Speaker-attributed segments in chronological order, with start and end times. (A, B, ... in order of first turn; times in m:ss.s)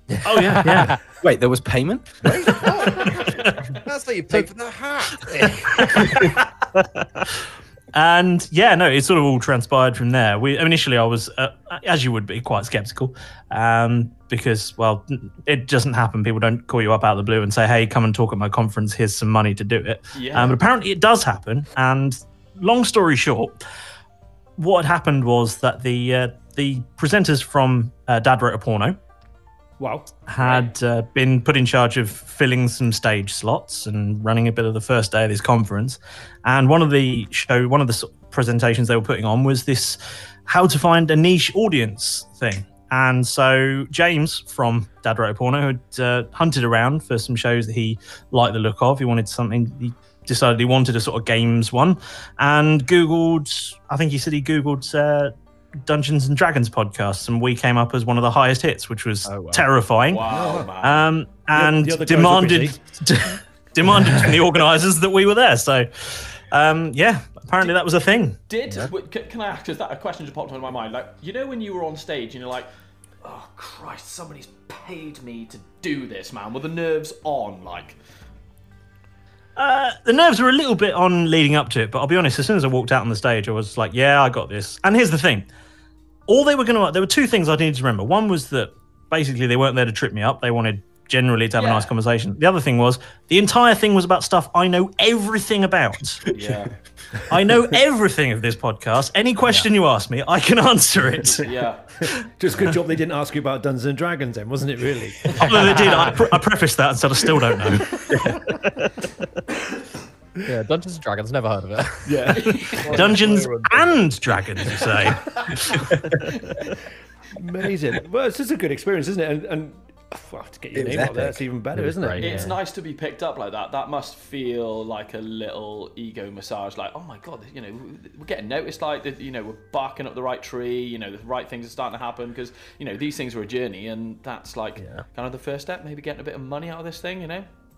0:00.2-0:01.0 A
0:00.2-0:01.0 B
0:01.2-0:02.3 C
0:02.2-0:05.9 D
0:03.3-0:03.8 B
0:05.6-0:23.6 B
0:20.1-0:20.6 E
0:24.6-0:29.0 B
0:29.8-0:30.2 F
0:30.3-0:55.3 B
0:30.4-0:30.7 E
0:55.8-1:00.3 B
0:59.3-0:59.7 A
1:00.1-1:01.1 E
1:00.2-1:00.7 F
1:00.8-1:08.4 B
1:01.5-1:02.8 F
1:08.5-1:12.7 E
1:13.2-1:18.0 E
1:19.6-1:25.5 B
1:26.3-1:36.3 B
1:31.6-1:31.9 E
1:36.3-1:36.8 E
1:37.3-1:41.5 B
1:41.4-1:41.9 E
1:42.4-1:46.2 F
1:45.3-1:48.2 B
1:48.1-1:48.4 C
1:50.4-1:52.6 A
1:52.1-1:53.0 F
1:52.4-1:52.8 E
1:52.8-1:54.2 D
1:52.9-1:56.2 B
1:57.3-2:02.5 F
2:00.7-2:01.4 C
2:01.7-2:02.6 A
2:02.2-2:17.5 E
2:14.8-2:15.0 A